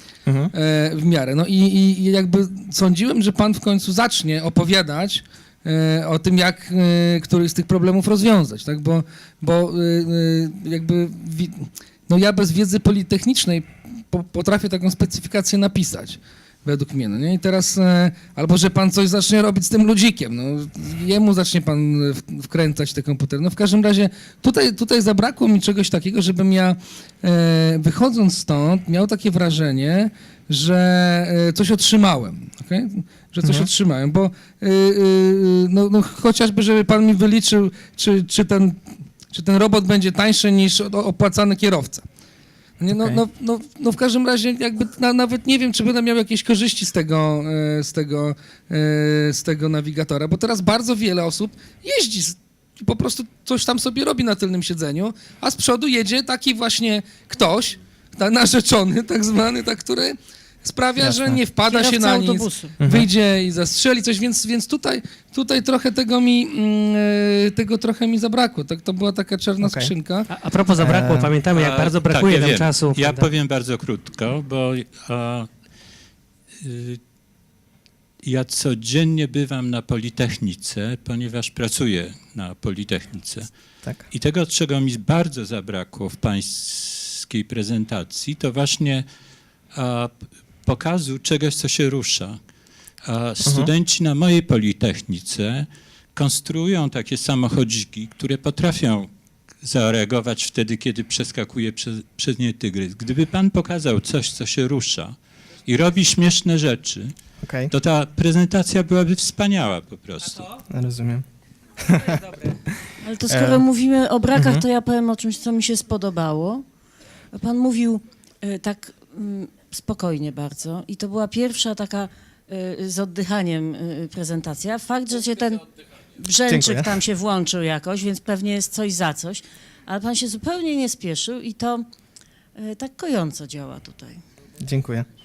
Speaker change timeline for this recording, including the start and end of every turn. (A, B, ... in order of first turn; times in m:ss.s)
0:00.5-0:42.0 A
0:42.8-1:10.3 A
0:42.9-0:43.2 B
1:01.0-1:01.4 B
1:01.6-1:02.8 C
1:02.8-1:03.1 B
1:09.6-1:09.9 B
1:10.3-1:13.2 D
1:10.8-1:11.3 B
1:11.5-1:15.5 E
1:16.6-1:17.0 E
1:18.2-1:23.5 E
1:23.8-1:24.1 B
1:24.1-1:29.0 E
1:29.7-1:32.4 E
1:33.0-1:39.1 E
1:33.4-1:33.7 B
1:39.6-1:47.1 E
1:47.4-1:47.7 B
1:47.7-1:50.6 E
1:50.7-1:51.2 B
1:51.8-1:52.1 B
1:53.0-1:56.6 C
1:53.3-1:53.6 B
1:54.3-1:54.6 B
1:57.3-2:05.6 C
2:06.2-2:11.8 C
2:06.5-2:07.0 B
2:12.6-2:14.2 C
2:14.6-2:15.1 B